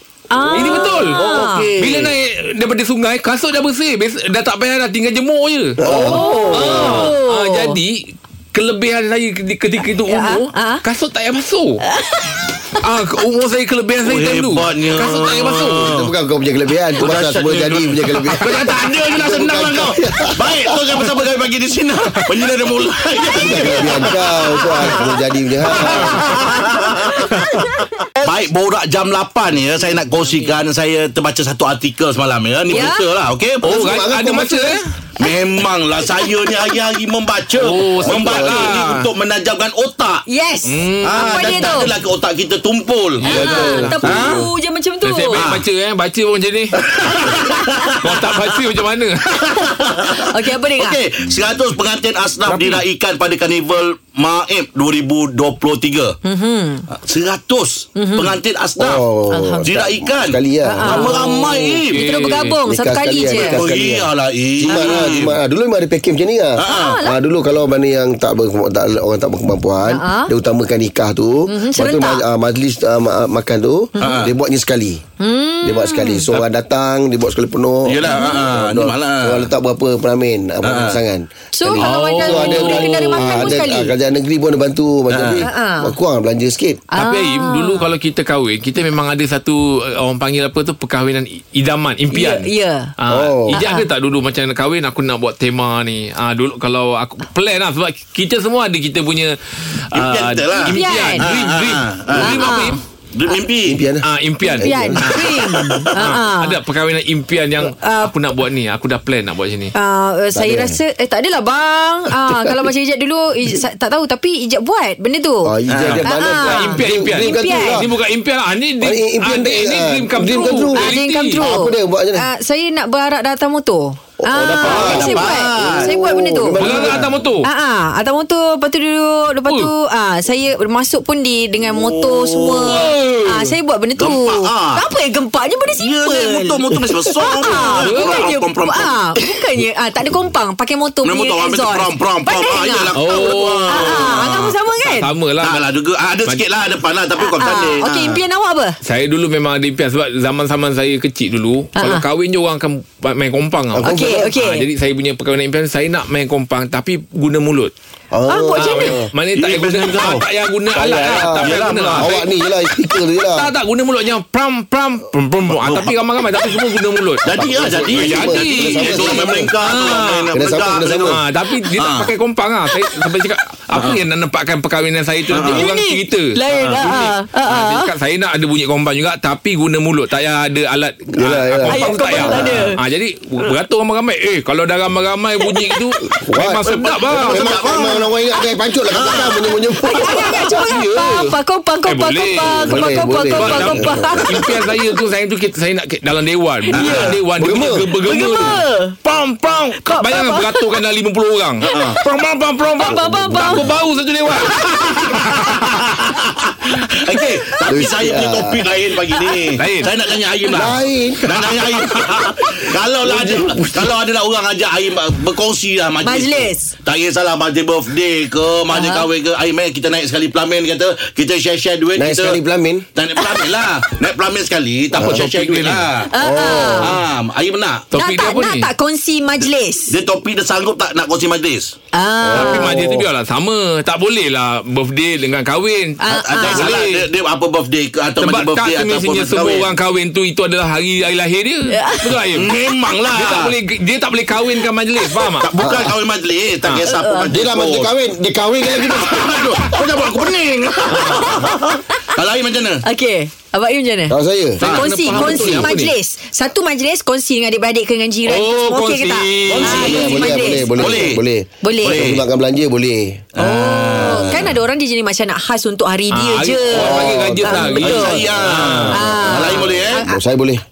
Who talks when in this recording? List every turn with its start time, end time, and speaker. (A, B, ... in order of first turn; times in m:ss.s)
0:00.3-0:02.1 A
0:00.4-0:01.9 B
0:00.5-0:11.8 C
0:05.8-0:07.1 B
0:05.8-0:07.8 A
0:10.0-0:10.8 A
0:11.8-0:12.5 A
0:12.7-0:15.9 C
0:14.0-0:16.1 D
0:15.8-0:21.0 B
0:17.0-0:25.0 D
0:18.3-0:18.7 C
0:22.2-0:22.4 C
0:23.4-0:26.3 B
0:24.8-0:25.2 A
0:25.8-0:33.8 D
0:25.8-0:26.7 A
0:27.3-0:27.9 A
0:32.7-0:33.1 A
0:33.6-0:34.8 C
0:33.7-0:34.8 B
0:35.2-0:40.2 D
0:36.2-0:36.7 A
0:37.6-0:39.1 C
0:38.0-0:38.8 B
0:40.3-0:42.0 A
0:40.7-0:41.7 C
0:41.0-0:44.3 D
0:43.2-0:44.5 C
0:43.2-0:45.4 A
0:43.4-0:44.3 B
0:45.0-0:47.4 C
0:45.4-0:45.6 D
0:46.9-0:48.2 D
0:48.0-0:49.7 C
0:49.4-0:56.2 D
0:49.9-0:51.0 A
0:52.5-0:52.8 A
0:56.2-0:56.9 A
0:56.9-0:59.0 D
0:58.0-0:58.4 A
0:58.8-1:01.1 B
0:59.3-0:59.9 A
0:59.6-1:02.0 D
1:00.6-1:03.6 A
1:01.3-1:02.6 C
1:02.7-1:15.0 B
1:03.3-1:05.4 D
1:04.7-1:05.2 A
1:06.6-1:07.0 D
1:06.6-1:07.2 A
1:09.8-1:10.3 A
1:11.5-1:12.2 A
1:14.0-1:14.3 A
1:14.0-1:14.3 D
1:15.2-1:16.3 A
1:15.6-1:26.8 B
1:17.9-1:19.5 D
1:18.0-1:18.4 A
1:20.6-1:21.0 D
1:21.5-1:23.9 A
1:21.8-1:23.7 C
1:25.1-1:25.5 D
1:25.4-1:26.0 A
1:26.9-1:27.9 A
1:26.9-1:42.8 C
1:32.1-1:32.9 A
1:33.1-1:33.6 B
1:33.5-1:33.9 A
1:39.9-1:43.8 D
1:40.5-1:41.3 A
1:42.1-1:42.8 A
1:43.7-1:44.1 B
1:44.0-1:49.8 C
1:44.4-1:46.6 A
1:44.6-1:45.7 B
1:47.6-1:48.1 A
1:49.8-1:57.9 A
1:50.3-1:50.8 B
1:52.1-1:52.7 B
1:55.4-1:57.9 B
1:55.7-1:56.1 D
1:56.4-2:01.4 C
1:58.8-2:02.3 B
2:00.2-2:06.8 A
2:04.2-2:07.2 B
2:04.6-2:06.0 D
2:06.6-2:07.5 C
2:06.7-2:07.1 D
2:07.4-2:25.1 A
2:11.7-2:13.0 D
2:12.7-2:13.5 B
2:14.0-2:14.9 D
2:15.8-2:19.0 D
2:17.6-2:18.2 C
2:21.0-2:24.6 D
2:23.0-2:25.7 C
2:25.4-2:28.2 D
2:27.2-2:28.8 A
2:28.8-2:37.7 C
2:31.8-2:32.0 A
2:33.7-2:34.3 B
2:33.8-2:34.6 A
2:38.1-2:39.1 B
2:38.3-2:39.0 A
2:38.5-2:42.2 C
2:39.4-2:40.2 D
2:40.7-2:43.5 B
2:41.4-2:42.1 D
2:43.4-2:47.3 C
2:45.5-2:45.9 D
2:47.2-2:52.1 D
2:47.3-2:49.5 B
2:47.9-2:50.3 C
2:50.3-2:51.2 B
2:51.0-3:07.5 C
2:53.7-2:54.0 D
2:55.3-2:55.7 D
2:55.4-2:57.9 A
2:56.6-2:56.8 D
3:01.1-3:02.7 B
3:01.6-3:02.8 A
3:05.4-3:05.8 A
3:06.1-3:10.8 B
3:06.6-3:08.1 D
3:08.9-3:10.1 D
3:09.5-3:14.6 A
3:10.6-3:25.8 C
3:12.5-3:14.7 B
3:16.7-3:17.2 A
3:16.7-3:17.2 D
3:17.4-3:17.9 B
3:18.0-3:19.0 A
3:19.8-3:20.8 A
3:21.7-3:22.0 A
3:21.7-3:22.0 D
3:22.8-3:23.7 A
3:22.8-3:23.8 B
3:24.4-3:25.1 A
3:24.7-3:42.4 D
3:27.4-3:27.9 A
3:27.7-3:28.6 B
3:29.1-3:29.5 A
3:29.6-3:29.9 C
3:30.5-3:31.6 B
3:33.0-3:34.0 B
3:36.0-3:36.7 A
3:38.7-3:39.1 A
3:42.0-3:42.9 B
3:43.0-3:46.1 D
3:43.2-3:43.5 A
3:44.9-3:45.2 B
3:44.9-3:45.9 C
3:46.1-3:47.0 A
3:46.2-3:47.0 B
3:46.8-3:47.9 D
3:47.9-3:48.7 C
3:48.0-3:50.0 A
3:49.9-3:51.8 D
3:51.9-3:52.8 A
3:52.2-3:53.0 B
3:52.3-3:57.1 C
3:56.0-3:56.8 A
3:56.1-3:59.7 D
3:58.2-4:02.5 C
4:01.7-4:02.2 A
4:02.3-4:03.5 D
4:03.1-4:05.5 C
4:05.4-4:07.9 D
4:05.6-4:06.0 B
4:06.6-4:06.9 C
4:06.8-4:07.3 A
4:07.3-4:09.6 B
4:08.6-4:12.8 D
4:10.9-4:11.2 C
4:11.0-4:11.6 A
4:12.8-4:21.0 A
4:14.1-4:15.7 B
4:14.6-4:15.7 D
4:14.6-4:15.9 C
4:18.3-4:20.3 C
4:19.5-4:21.2 D
4:19.5-4:23.2 B
4:21.6-4:22.1 A
4:21.8-4:22.2 D
4:23.4-4:24.6 D
4:23.4-4:28.3 A
4:26.1-4:29.1 C
4:26.7-4:28.0 B
4:27.8-4:30.0 D
4:28.9-4:30.2 A
4:29.0-4:30.6 B